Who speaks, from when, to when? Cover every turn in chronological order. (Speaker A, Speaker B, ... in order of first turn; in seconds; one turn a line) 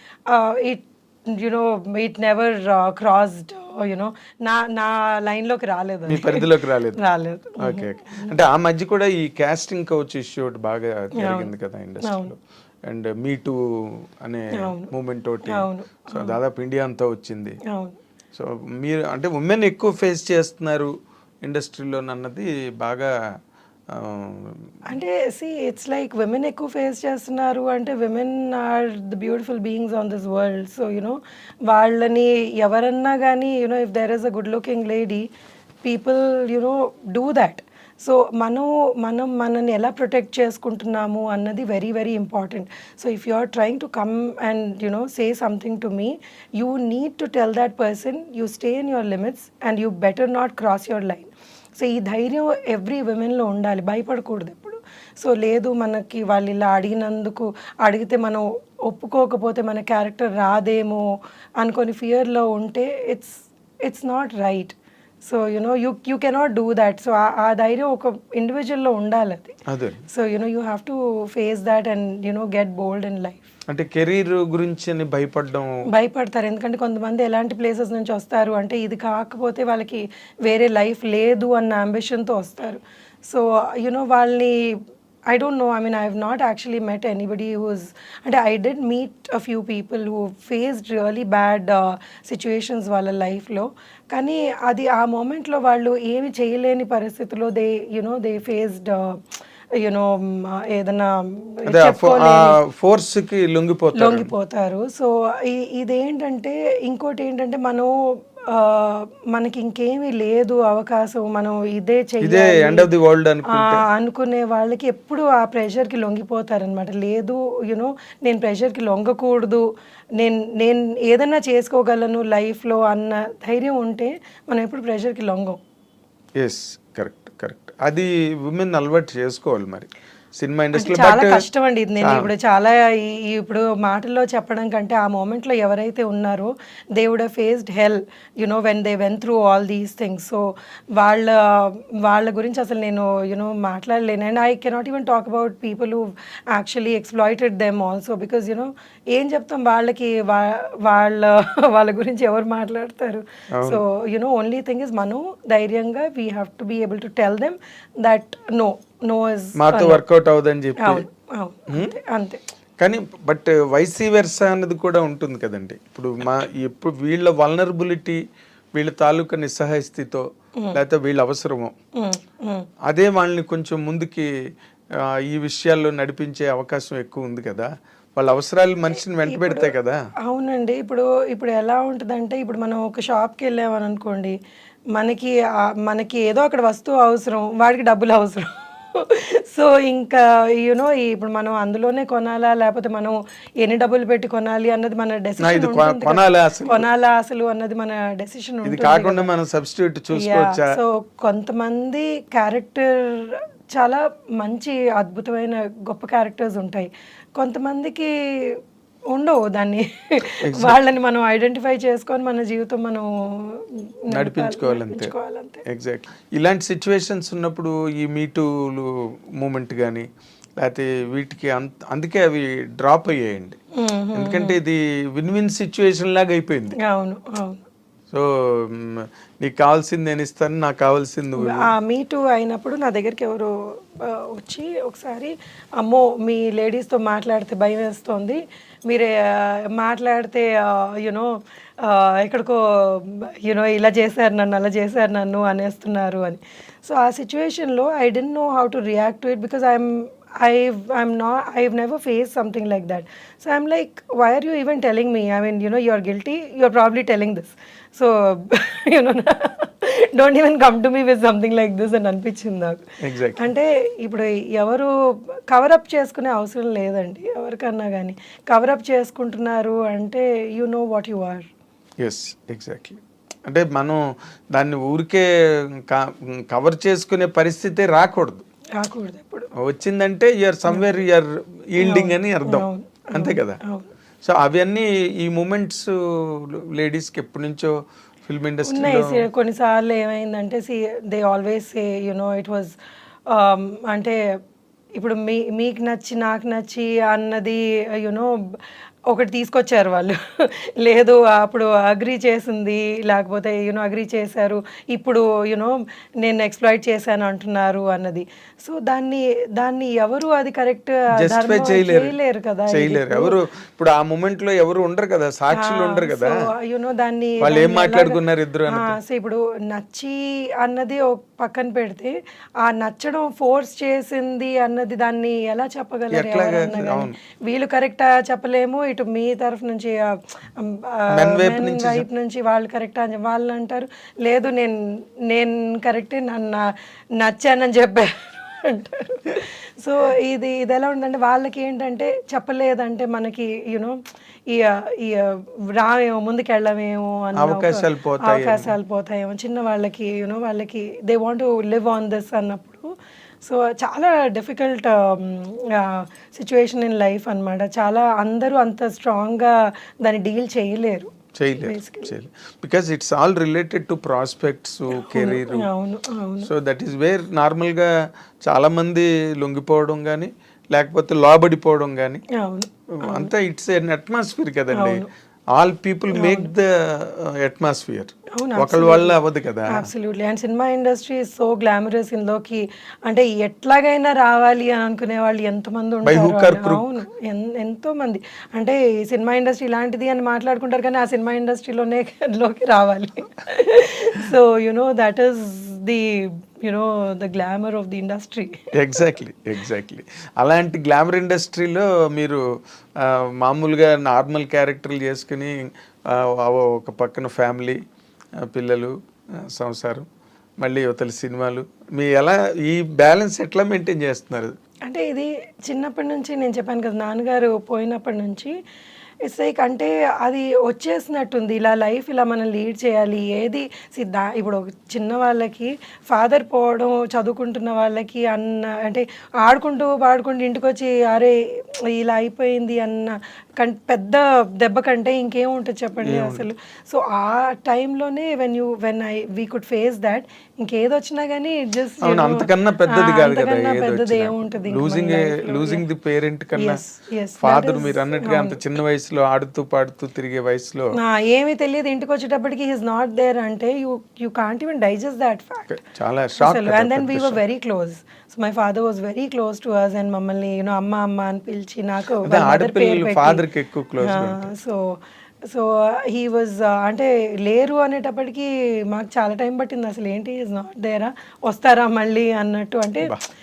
Speaker A: 0.3-8.4
Speaker B: 6.1-7.0
Speaker B: 7.6-17.6
Speaker A: 11.2-11.5
Speaker A: 12.0-12.3
Speaker A: 14.6-14.9
Speaker A: 15.5-16.4
Speaker A: 17.7-18.0
Speaker B: 18.3-20.9
Speaker B: 21.4-23.1
Speaker B: 23.9-24.6
Speaker A: 24.9-31.2
Speaker A: 31.7-35.3
Speaker A: 35.8-61.0
Speaker A: 61.6-64.8
Speaker A: 65.3-69.6
Speaker B: 69.7-70.0
Speaker A: 70.1-73.5
Speaker B: 73.7-75.7
Speaker A: 75.9-84.8
Speaker A: 85.3-99.2
Speaker A: 99.8-102.6
Speaker B: 101.7-104.3
Speaker A: 104.0-107.9
Speaker A: 108.5-112.9
Speaker B: 112.2-113.8
Speaker A: 113.5-119.7
Speaker A: 120.2-125.6
Speaker B: 126.4-131.5
Speaker A: 130.8-140.4
Speaker B: 132.0-132.3
Speaker A: 141.0-160.0
Speaker B: 153.6-153.8
Speaker B: 159.6-161.1
Speaker A: 160.8-162.4
Speaker B: 162.8-168.2
Speaker B: 168.7-171.7
Speaker A: 172.0-172.7
Speaker B: 172.9-174.3
Speaker B: 175.0-180.0
Speaker A: 179.2-179.7
Speaker A: 180.2-184.4
Speaker A: 184.9-199.3
Speaker B: 195.4-196.9
Speaker B: 198.7-200.8
Speaker A: 200.1-208.1
Speaker A: 209.1-215.6
Speaker B: 210.5-210.8
Speaker B: 214.1-215.1
Speaker B: 215.7-220.1
Speaker B: 220.6-223.6
Speaker A: 223.8-224.6
Speaker B: 224.2-226.8
Speaker A: 226.8-227.6
Speaker B: 228.1-231.7
Speaker A: 231.4-262.9
Speaker B: 263.0-263.5
Speaker A: 263.4-264.9
Speaker A: 265.5-271.5
Speaker B: 272.0-278.4
Speaker A: 278.8-279.5
Speaker B: 279.6-283.6
Speaker A: 280.7-281.0
Speaker A: 281.8-283.9
Speaker B: 284.2-287.7
Speaker B: 288.3-289.2
Speaker A: 288.7-292.8
Speaker A: 293.3-294.2
Speaker A: 295.0-298.6
Speaker A: 299.1-313.4
Speaker B: 311.2-312.1
Speaker B: 312.7-316.3
Speaker A: 315.5-344.0
Speaker B: 317.4-318.9
Speaker B: 326.1-327.2
Speaker B: 331.2-332.1
Speaker A: 344.5-352.9
Speaker B: 347.4-348.7
Speaker A: 353.4-362.1
Speaker B: 361.4-365.7
Speaker A: 364.9-366.5
Speaker B: 366.4-367.9
Speaker B: 368.4-372.2
Speaker A: 372.3-373.3
Speaker B: 372.9-379.9
Speaker A: 374.7-375.1
Speaker A: 376.1-376.5
Speaker A: 378.4-398.7
Speaker B: 386.0-387.0
Speaker B: 398.7-402.4
Speaker B: 403.0-407.8
Speaker B: 408.5-408.9
Speaker B: 409.5-410.1
Speaker B: 410.6-414.5
Speaker A: 414.9-418.5
Speaker A: 419.2-431.4
Speaker A: 431.9-445.9
Speaker B: 436.0-436.5
Speaker B: 442.0-446.8
Speaker A: 446.6-448.6
Speaker B: 447.4-450.9
Speaker A: 451.0-455.8
Speaker B: 455.7-457.4
Speaker A: 456.4-463.4
Speaker B: 462.2-464.5
Speaker A: 464.0-464.8
Speaker A: 465.5-473.1